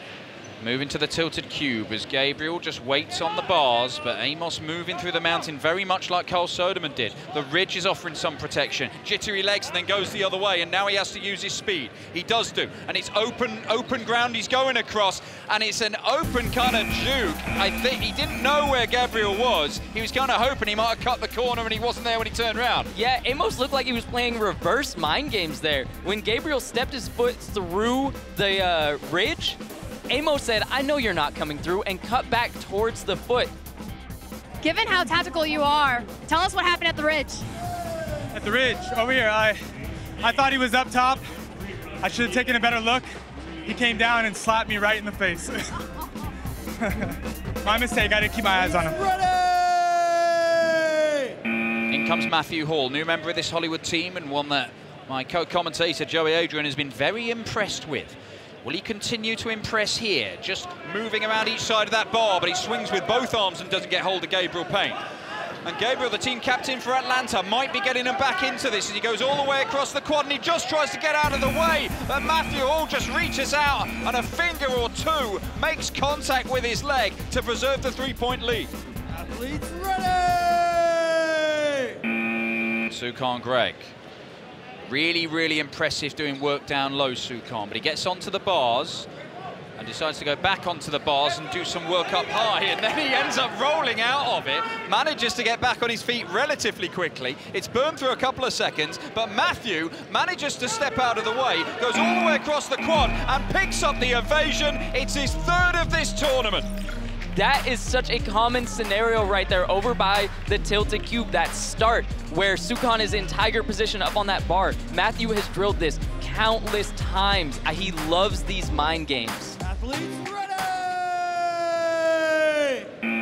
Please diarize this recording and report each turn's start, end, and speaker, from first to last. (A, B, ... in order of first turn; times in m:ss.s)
0:00.6-0:22.9 A
0:22.9-0:29.6 B
0:30.1-0:33.5 B
0:34.6-0:37.4 C
0:38.3-0:39.6 D
0:40.2-0:41.3 D
0:42.0-0:43.1 D
0:43.6-0:45.7 D
0:46.8-0:49.0 D
0:48.8-0:51.4 E
0:51.9-1:05.0 A
1:05.6-1:18.7 A
1:19.1-1:22.0 E
1:22.9-1:23.9 A
1:24.8-1:29.1 A
1:29.8-1:46.7 A
1:47.3-1:59.6 B
1:59.6-2:02.9 E